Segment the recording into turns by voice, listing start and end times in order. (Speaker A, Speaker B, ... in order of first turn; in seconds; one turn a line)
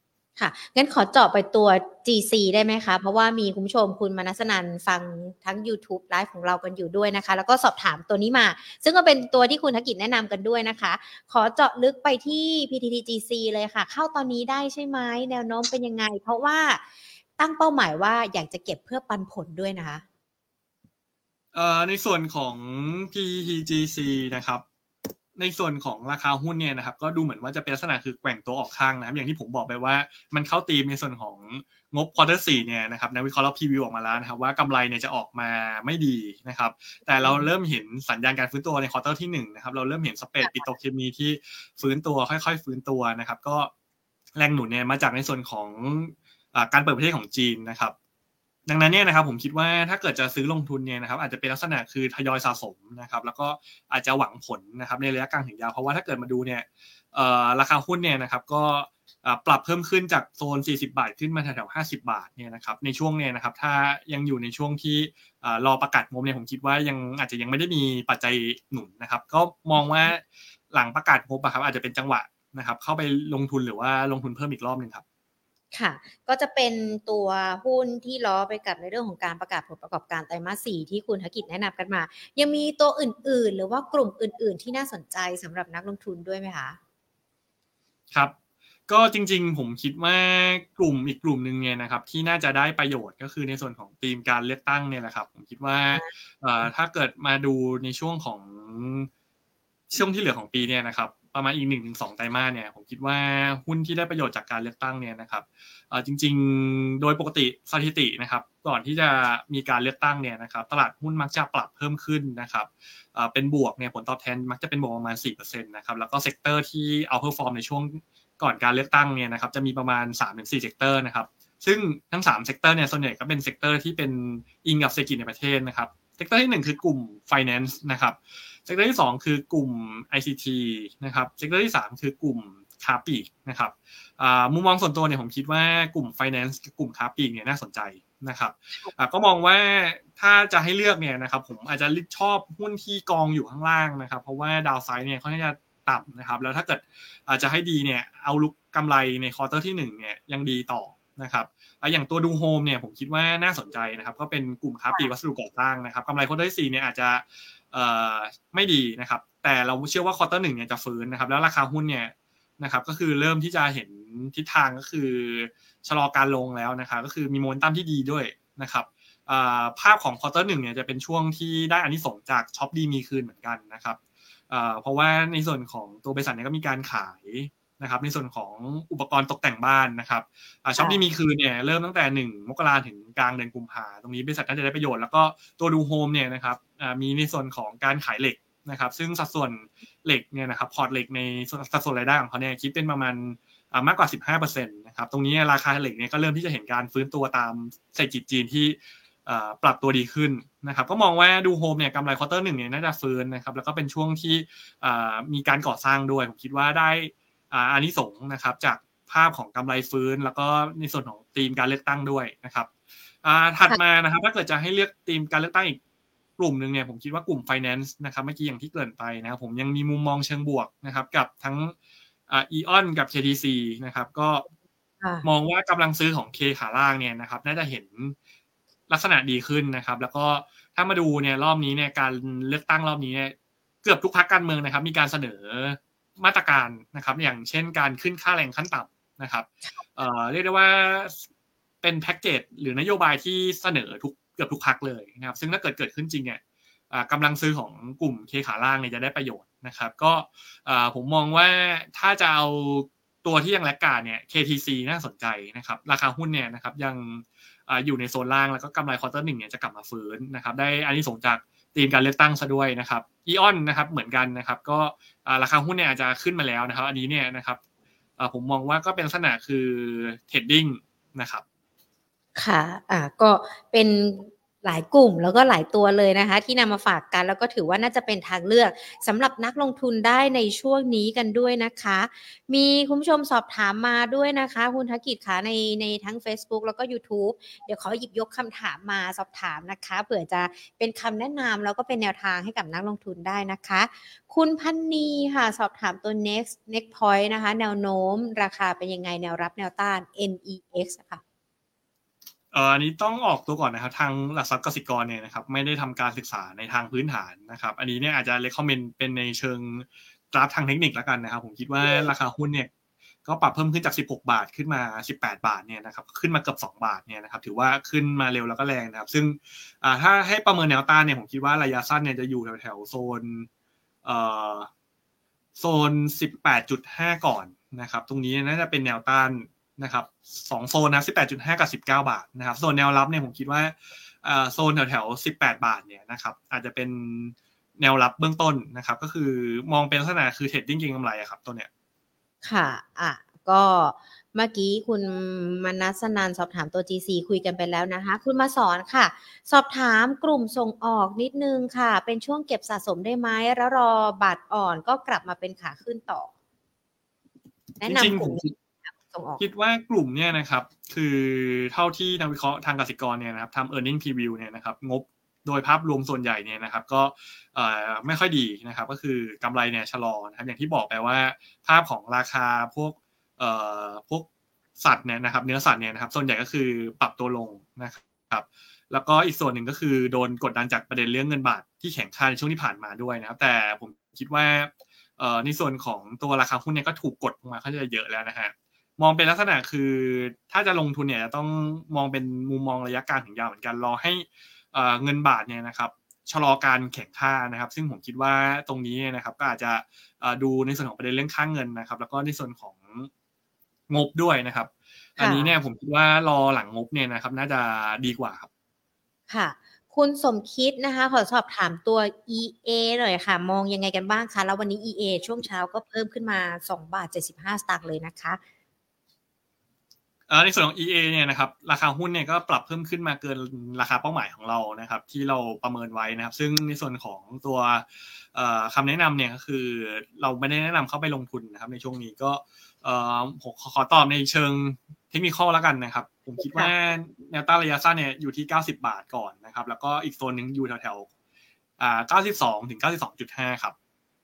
Speaker A: 0.4-16.8
Speaker A: 17.4-20.1
Speaker B: 21.5-24.6
Speaker B: 25.4-43.7
Speaker A: 37.2-37.5
Speaker A: 40.4-40.7
Speaker B: 44.4-47.9
Speaker B: 48.7-75.0
Speaker A: 69.8-70.1
Speaker A: 75.7-86.8
Speaker B: 88.9-99.1
Speaker B: 99.9-174.0
Speaker B: 174.5-212.7
Speaker A: 180.8-181.0
Speaker B: 213.2-215.8
Speaker B: 216.4-221.7
Speaker B: 222.3-224.4
Speaker A: 225.0-225.3
Speaker B: 225.2-228.2
Speaker B: 228.9-241.2
Speaker B: 241.8-246.4
Speaker B: 246.9-267.6
Speaker B: 268.2-271.4
Speaker A: 272.4-301.2
Speaker B: 302.5-312.7
Speaker A: 311.8-312.1
Speaker B: 313.2-323.5
Speaker B: 324.0-324.7
Speaker B: 325.6-341.7
Speaker A: 342.4-356.3
Speaker A: 357.8-359.4
Speaker B: 357.9-358.5
Speaker B: 359.4-374.3
Speaker B: 374.8-403.1
Speaker B: 403.9-408.5
Speaker A: 405.2-405.5
Speaker A: 409.3-418.4
Speaker B: 420.3-441.1
Speaker A: 436.4-436.7
Speaker B: 441.8-443.7